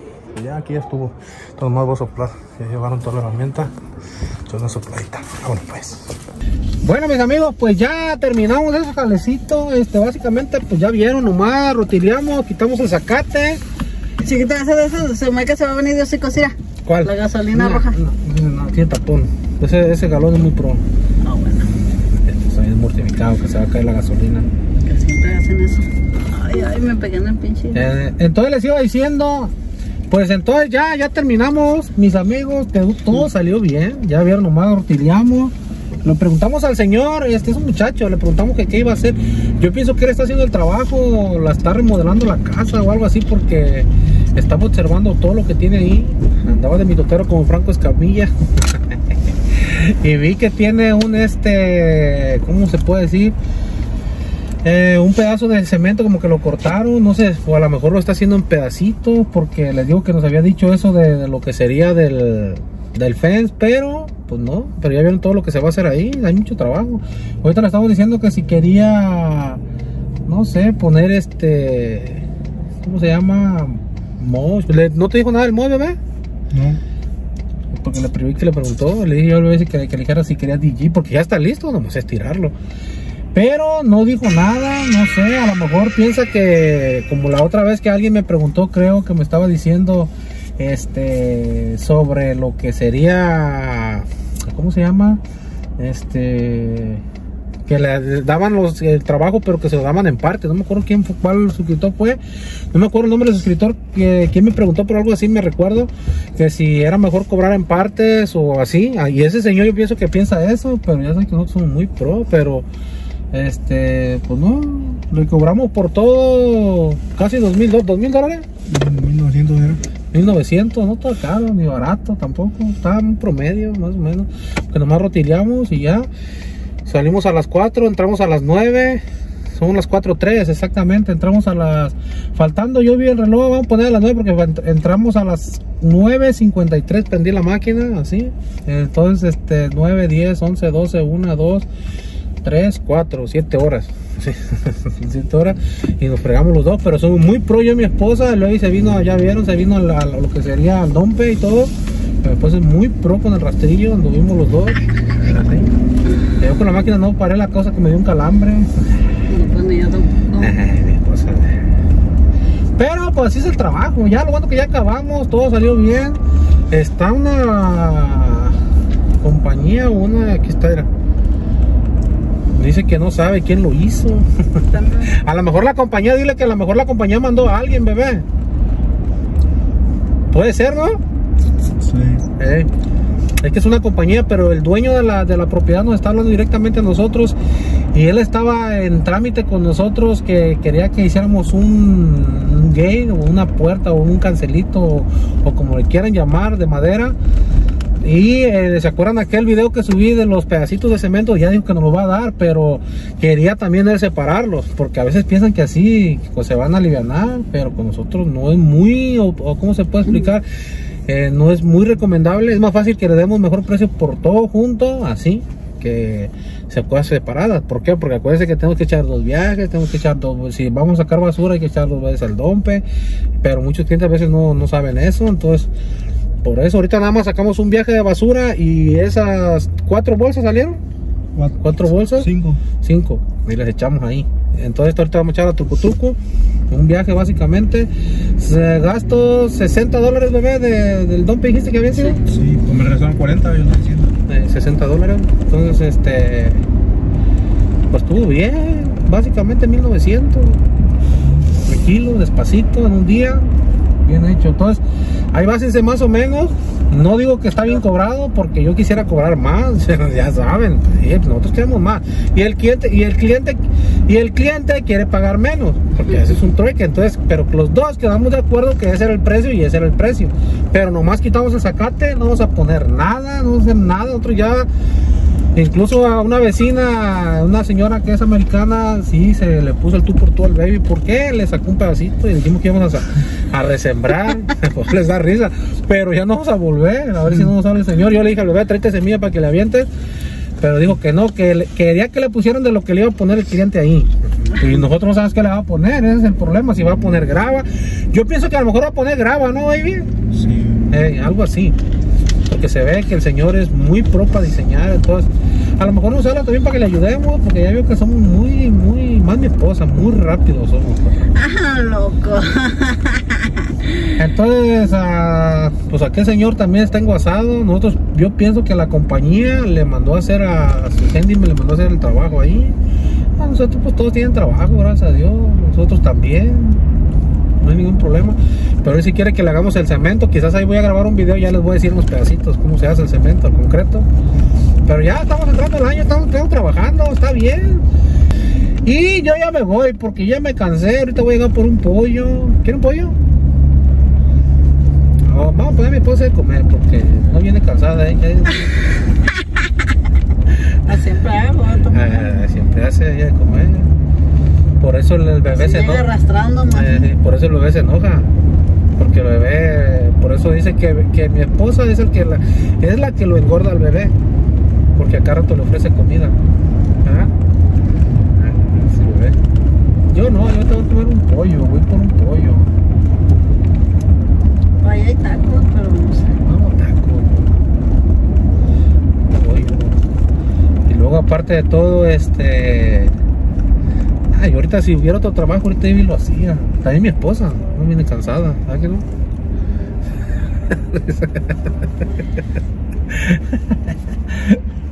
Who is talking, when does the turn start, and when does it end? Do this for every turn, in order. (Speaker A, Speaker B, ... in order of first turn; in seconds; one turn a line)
Speaker A: 0.3-3.7
Speaker A: 4.5-6.1
Speaker A: 6.8-13.6
Speaker B: 14.2-18.0
Speaker A: 16.9-20.8
Speaker B: 21.2-21.7
Speaker A: 22.2-24.5
Speaker B: 24.8-27.9
Speaker A: 27.7-29.5
Speaker A: 30.1-49.0
Speaker A: 49.5-53.4
Speaker A: 54.6-69.6
Speaker A: 70.3-72.2
Speaker A: 72.8-76.0
Speaker C: 76.5-76.8
Speaker A: 77.7-82.6
Speaker A: 83.3-95.2
Speaker A: 95.8-97.0
Speaker A: 97.7-102.2
Speaker A: 102.7-112.7
Speaker A: 113.3-118.5
Speaker C: 118.7-119.8
Speaker A: 120.1-126.1
Speaker A: 126.8-129.0
Speaker A: 129.5-141.7
Speaker A: 142.4-155.7
Speaker A: 156.4-158.7
Speaker B: 159.3-160.6
Speaker A: 160.4-161.6
Speaker A: 162.8-166.2
Speaker A: 166.7-168.6
Speaker A: 169.2-170.9
Speaker A: 172.5-178.2
Speaker B: 174.7-175.1
Speaker A: 180.3-181.0
Speaker C: 181.8-182.3
Speaker A: 182.4-182.7
Speaker A: 183.4-187.4
Speaker A: 187.9-197.2
Speaker A: 198.0-210.4
Speaker A: 211.1-222.8
Speaker A: 223.4-225.7
Speaker A: 226.4-230.8
Speaker C: 231.4-232.6
Speaker A: 231.6-236.2
Speaker A: 236.7-242.2
Speaker C: 242.2-244.1
Speaker A: 244.3-246.6
Speaker A: 247.9-250.7
Speaker A: 251.7-254.8
Speaker A: 255.3-274.7
Speaker A: 275.6-289.9
Speaker A: 290.6-300.1
Speaker C: 300.3-300.8
Speaker A: 300.9-301.8
Speaker A: 302.5-311.3
Speaker B: 311.3-314.1
Speaker A: 314.2-322.8
Speaker A: 323.4-326.8
Speaker A: 327.6-334.1
Speaker A: 334.9-337.9
Speaker A: 338.9-343.2
Speaker A: 345.2-348.9
Speaker B: 349.6-349.9
Speaker B: 350.9-352.2
Speaker A: 351.9-353.9
Speaker A: 354.8-356.1
Speaker B: 355.5-357.1
Speaker A: 356.7-358.3
Speaker A: 359.0-364.1
Speaker A: 364.9-366.4
Speaker A: 367.0-367.3
Speaker A: 368.4-369.4
Speaker A: 370.1-372.7
Speaker B: 374.8-376.4
Speaker A: 376.4-377.5
Speaker A: 379.2-380.0
Speaker A: 380.9-383.2
Speaker A: 384.3-389.1
Speaker A: 390.7-391.7
Speaker A: 393.1-394.6